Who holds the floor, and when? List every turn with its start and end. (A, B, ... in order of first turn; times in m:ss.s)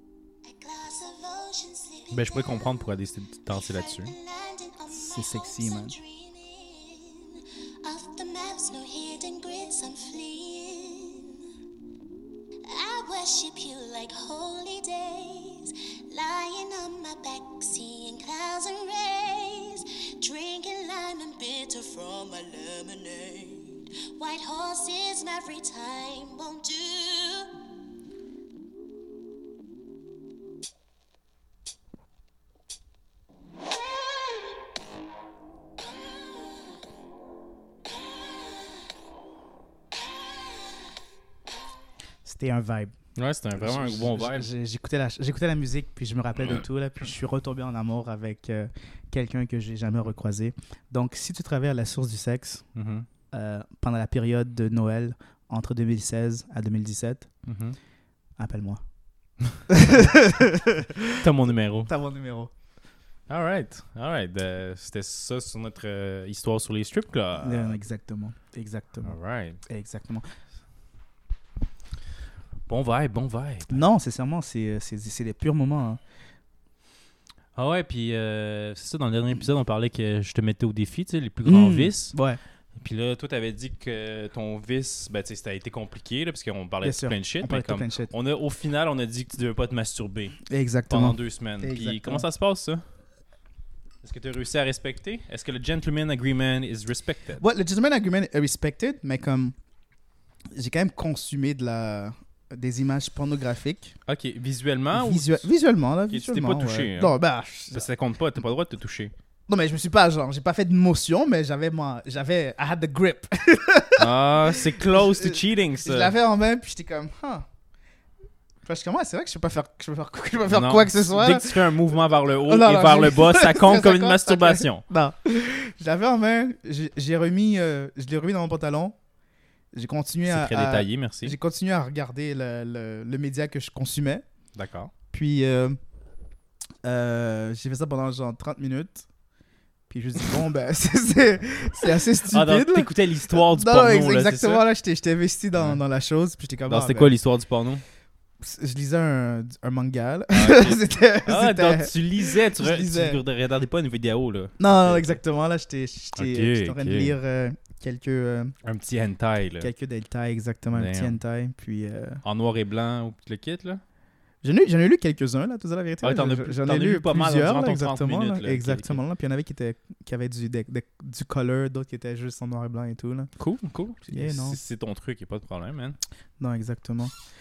0:00.4-0:02.9 A
0:02.1-0:04.1 B
0:03.5-0:11.4 A
0:04.9-0:06.0 C
0:12.6-0:27.5 A
0:42.2-0:42.9 C
0:43.2-0:44.5 B
0:43.6-0:52.6 C
0:52.7-0:53.1 B
0:53.3-0:57.3 C
0:57.4-0:57.8 B
0:58.4-0:58.8 C
0:59.7-1:01.2 C
1:01.2-1:01.9 B
1:01.9-1:02.5 C
1:03.3-1:07.8 B
1:07.4-1:10.3 C
1:09.0-1:09.6 B
1:12.7-1:13.8 B
1:13.7-1:16.0 C
1:17.5-1:22.1 B
1:21.4-1:22.4 C
1:22.8-1:32.8 B
1:26.8-1:28.1 C
1:30.5-1:32.2 C
1:34.0-1:37.4 B
1:37.4-1:39.5 C
1:40.5-1:44.0 C
1:44.0-1:45.4 B
1:44.9-1:47.9 C
1:46.1-1:47.2 B
1:47.7-1:49.1 B
1:49.5-1:57.4 C
1:54.0-1:56.2 B
1:58.6-2:09.0 C
2:00.5-2:04.8 B
2:09.7-2:14.2 C
2:10.3-2:11.4 B
2:14.5-2:14.9 B
2:15.1-2:15.8 C
2:16.8-2:19.1 C
2:19.9-2:27.1 C
2:21.8-2:24.6 B
2:26.7-2:27.8 B
2:28.4-2:33.2 C
2:30.3-2:35.2 B
2:34.6-2:38.5 C
2:36.2-2:37.2 B
2:38.6-2:39.7 B
2:39.6-2:42.2 C
2:40.7-2:41.2 B
2:42.2-2:43.8 B
2:44.4-2:53.3 C
2:46.0-2:49.0 B
2:53.4-2:56.0 B
2:54.1-2:54.6 C
2:56.4-2:57.1 C